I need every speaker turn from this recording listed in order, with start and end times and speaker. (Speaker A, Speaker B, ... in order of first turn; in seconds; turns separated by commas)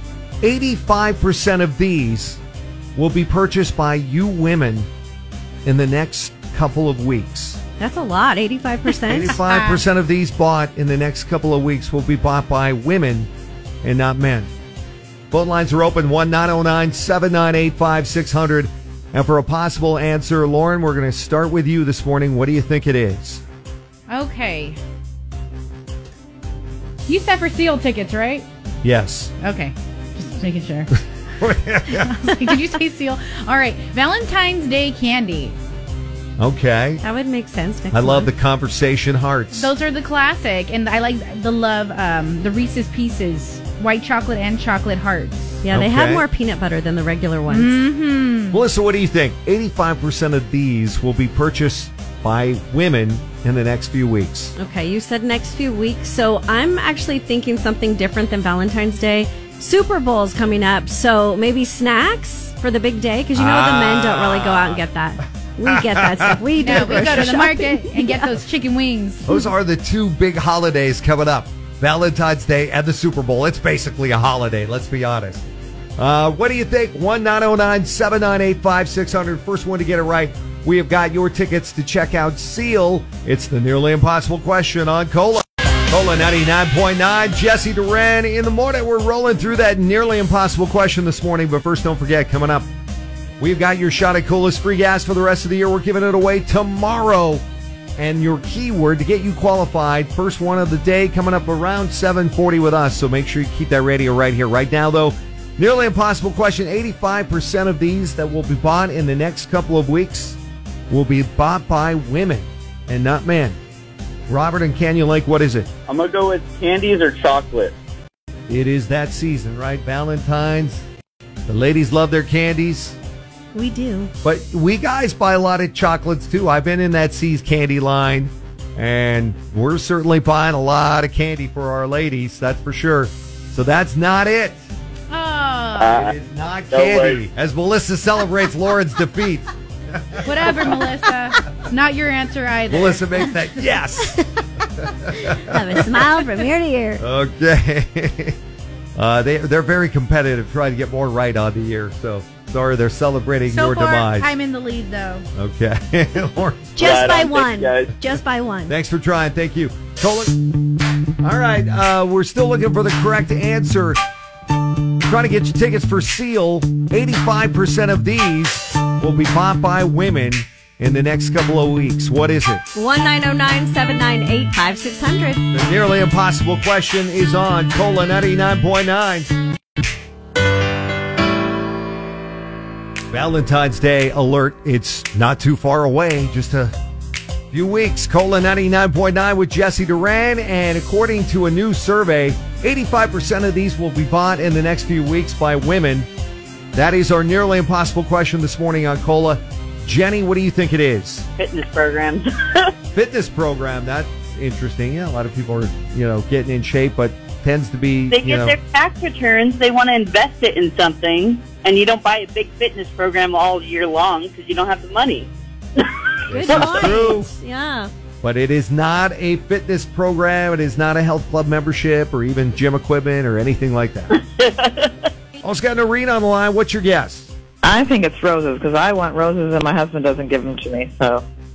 Speaker A: 0.4-2.4, Speaker A: 3.0-4.9, Speaker A: 5.7-7.6, Speaker B: 7.8-9.4, Speaker A: 9.1-13.3, Speaker C: 9.5-9.8, Speaker A: 13.8-14.5, Speaker A: 15.3-23.4, Speaker C: 24.1-24.8, Speaker C: 27.1-28.5, Speaker A: 28.8-29.3, Speaker C: 29.4-30.9, Speaker A: 31.4-32.2, Speaker C: 31.9-35.6, Speaker A: 36.4-37.0, Speaker B: 37.0-38.3, Speaker A: 37.9-39.7, Speaker C: 39.5-45.6, Speaker B: 45.6-47.8, Speaker A: 45.7-46.3, Speaker C: 47.5-48.6, Speaker A: 48.5-54.5, Speaker B: 54.6-68.3, Speaker A: 63.4-64.9, Speaker A: 65.7-67.1, Speaker C: 66.5-69.4, Speaker A: 69.3-75.5, Speaker A: 76.0-92.7, Speaker A: 93.4-97.4, Speaker A: 98.0-110.4, Speaker A: 110.9-113.6, Speaker A: 114.3-115.7, Speaker D: 115.9-117.8, Speaker A: 118.5-120.8, Speaker A: 121.5-123.0, Speaker B: 123.5-124.1, Speaker A: 124.2-134.6, Speaker C: 135.1-136.0, Speaker D: 135.8-136.1, Speaker A: 135.9-141.5, Speaker D: 136.7-137.2, Speaker C: 140.2-143.8, Speaker A: 142.7-144.2, Speaker A: 144.8-145.9, Speaker B: 145.4-147.0, Speaker A: 147.0-148.4, Speaker A: 149.0-154.3, Speaker C: 153.5-155.3, Speaker A: 155.4-156.8, Speaker B: 156.8-158.7, Speaker D: 156.8-157.9, Speaker A: 158.7-160.3, Speaker A: 161.2-164.0, Speaker A: 165.1-172.6, Speaker B: 172.7-175.4, Speaker A: 175.5-179.3, Speaker A: 183.1-186.7, Speaker A: 187.5-196.1, Speaker A: 196.8-201.3, Speaker E: 201.4-202.7, Speaker A: 202.9-208.6, Speaker E: 208.1-215.9, Speaker A: 216.3-217.3, Speaker B: 216.3-217.9, Speaker A: 218.2-224.2, Speaker E: 224.3-224.9, Speaker A: 225.4-227.3, Speaker F: 227.6-231.3